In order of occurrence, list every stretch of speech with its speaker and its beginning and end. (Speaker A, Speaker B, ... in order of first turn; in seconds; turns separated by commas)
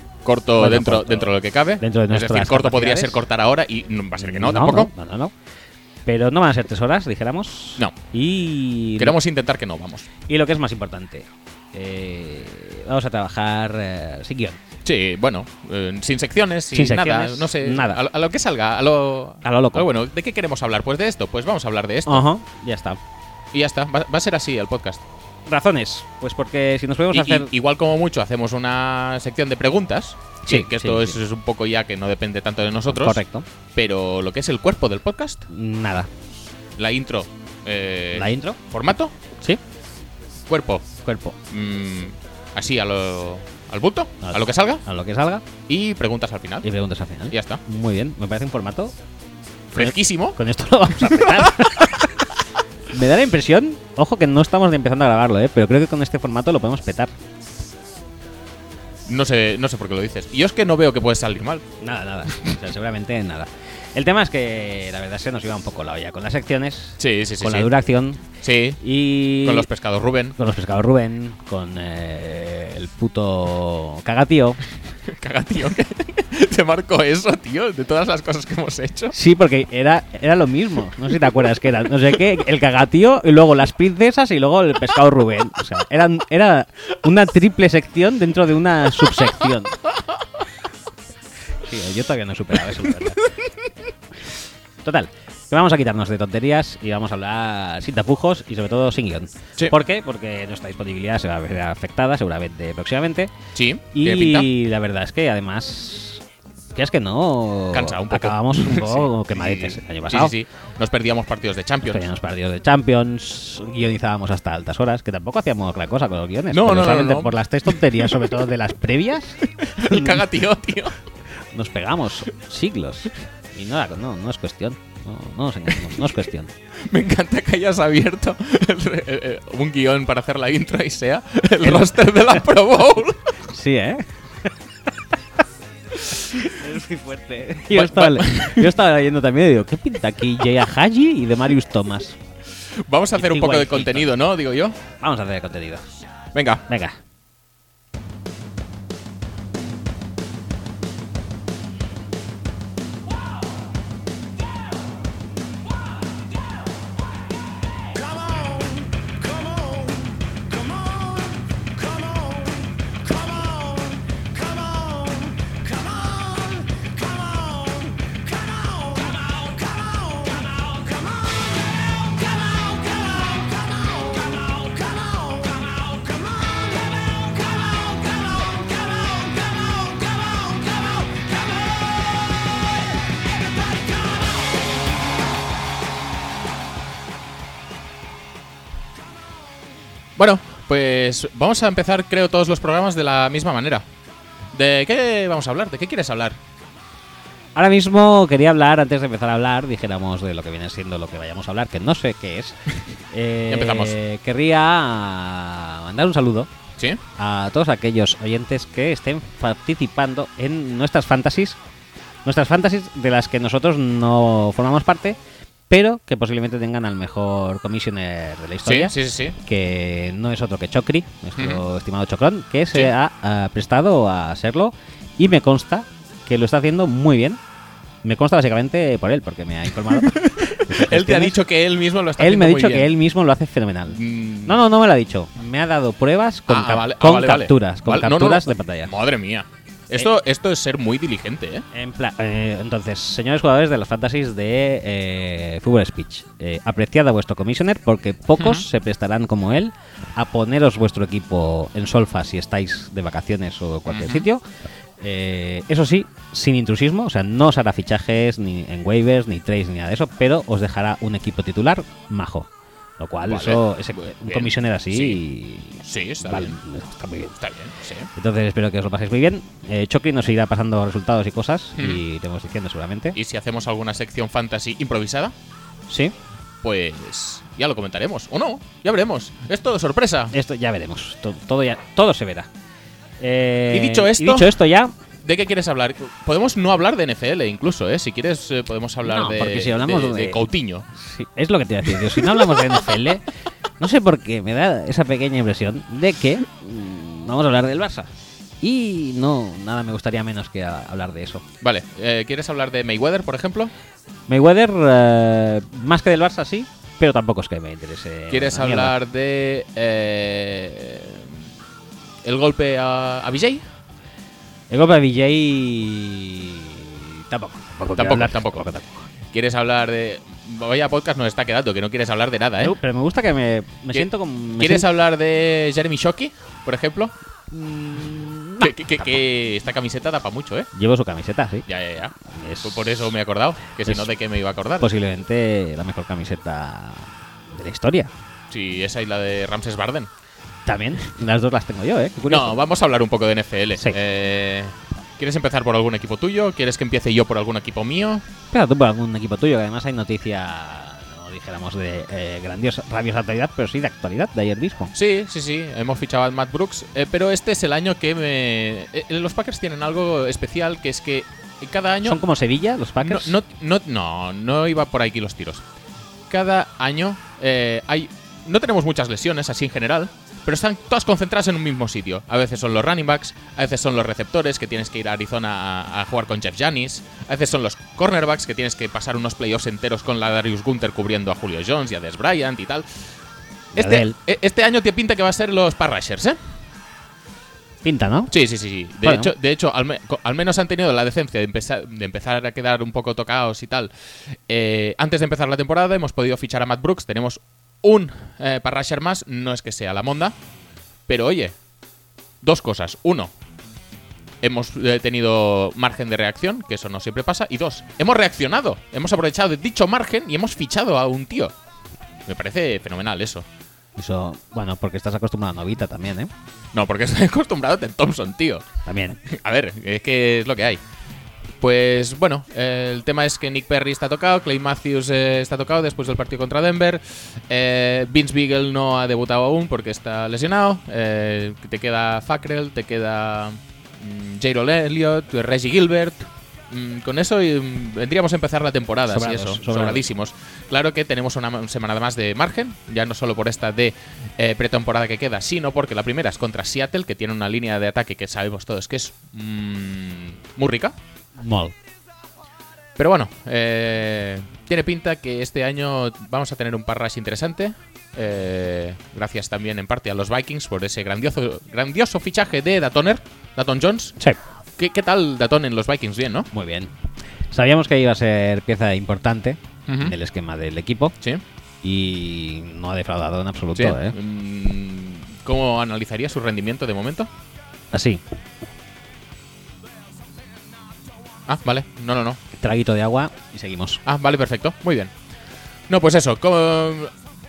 Speaker A: 0.2-4.9, Speaker B: 0.6-3.2, Speaker B: 4.2-5.3, Speaker B: 6.1-9.2, Speaker A: 9.0-10.1, Speaker B: 10.3-14.6, Speaker A: 14.8-22.3, Speaker B: 16.7-18.0, Speaker B: 19.4-19.9, Speaker B: 22.1-23.0, Speaker A: 23.5-25.0, Speaker B: 25.5-27.5, Speaker A: 27.1-33.2, Speaker B: 30.4-31.2, Speaker B: 32.9-33.5, Speaker A: 33.8-35.5, Speaker B: 35.5-36.1, Speaker A: 36.8-39.1, Speaker B: 38.1-38.6, Speaker A: 40.5-40.9, Speaker B: 41.0-41.4, Speaker A: 41.5-44.8, Speaker B: 44.2-45.5, Speaker A: 45.7-46.7, Speaker B: 46.6-48.9, Speaker A: 47.3-47.6, Speaker A: 49.7-50.4, Speaker B: 49.8-52.3, Speaker A: 51.0-51.5, Speaker B: 52.9-57.1, Speaker A: 59.1-61.6, Speaker B: 61.8-68.3, Speaker A: 67.0-67.7, Speaker A: 68.4-68.8, Speaker B: 68.8-69.7, Speaker A: 69.4-70.4, Speaker B: 70.4-74.6, Speaker A: 75.1-79.2, Speaker B: 79.1-89.8, Speaker B: 91.6-93.3, Speaker B: 94.8-103.3, Speaker A: 103.5-104.5, Speaker B: 103.9-106.2, Speaker B: 106.8-110.3, Speaker A: 107.7-112.0, Speaker B: 111.9-120.3, Speaker A: 116.5-118.3, Speaker A: 119.6-121.0, Speaker B: 121.5-126.5, Speaker A: 126.8-133.4, Speaker B: 133.5-134.5, Speaker A: 136.0-136.4, Speaker B: 136.2-142.2, Speaker A: 137.7-138.8, Speaker A: 142.7-144.8, Speaker B: 143.2-144.1, Speaker B: 145.0-145.9, Speaker A: 146.3-146.7, Speaker B: 146.7-147.0, Speaker C: 157.9-181.3, Speaker A: 190.2-193.9, Speaker A: 194.5-196.4, Speaker B: 197.6-202.6, Speaker B: 203.1-206.5, Speaker A: 203.5-204.0, Speaker B: 207.2-211.6, Speaker B: 212.2-215.2, Speaker B: 215.7-227.4, Speaker A: 218.7-219.4, Speaker A: 221.4-221.6, Speaker B: 228.0-231.4, Speaker A: 229.9-232.9, Speaker B: 232.2-238.9, Speaker A: 233.9-234.6, Speaker A: 236.5-241.7, Speaker B: 241.7-254.4, Speaker A: 248.4-248.7, Speaker A: 253.9-254.3, Speaker B: 255.0-267.4, Speaker A: 263.3-265.2, Speaker A: 265.8-266.6, Speaker A: 267.4-268.1, Speaker B: 268.1-273.2, Speaker A: 271.8-272.0, Speaker A: 273.1-275.4, Speaker B: 275.9-276.1, Speaker A: 276.6-280.3, Speaker B: 280.3-282.5, Speaker B: 283.2-284.9, Speaker A: 283.7-284.6, Speaker A: 285.2-290.9, Speaker B: 289.1-290.4, Speaker B: 290.9-293.2, Speaker A: 292.1-292.5, Speaker B: 293.8-301.4, Speaker A: 301.6-303.7, Speaker B: 304.3-308.9, Speaker A: 308.3-311.4, Speaker A: 312.2-313.6, Speaker B: 314.7-319.1, Speaker A: 318.0-318.7, Speaker A: 319.3-322.8, Speaker B: 322.6-324.9, Speaker A: 324.6-327.1, Speaker B: 327.5-328.8, Speaker A: 328.6-330.7, Speaker B: 330.7-331.7, Speaker A: 331.7-334.9, Speaker B: 332.2-333.1, Speaker B: 334.8-338.1, Speaker A: 338.5-340.1, Speaker B: 340.7-342.6, Speaker A: 342.3-348.3, Speaker B: 348.5-354.9, Speaker A: 354.9-362.2, Speaker B: 362.0-363.4, Speaker A: 363.0-365.6, Speaker A: 366.3-382.9, Speaker B: 383.8-384.1, Speaker A: 383.8-386.4, Speaker B: 387.8-388.3, Speaker A: 388.3-393.9, Speaker B: 389.0-389.3, Speaker A: 394.5-400.4, Speaker A: 401.1-401.6, Speaker A: 402.4-403.3, Speaker A: 404.4-411.5, Speaker A: 412.3-413.5, Speaker B: 414.0-416.3, Speaker A: 416.7-418.7, Speaker B: 418.9-419.2, Speaker A: 419.2-420.8, Speaker A: 421.6-451.0, Speaker B: 439.1-440.0, Speaker B: 451.4-451.8, Speaker A: 453.0-464.2, Speaker A: 464.8-466.5, Speaker B: 466.5-466.9, Speaker B: 467.5-471.1, Speaker A: 469.9-470.2, Speaker B: 471.8-474.2, Speaker A: 473.8-477.3, Speaker B: 477.9-478.2, Speaker A: 481.5-482.4, Speaker B: 482.5-484.0, Speaker A: 484.1-485.1, Speaker A: 485.9-487.1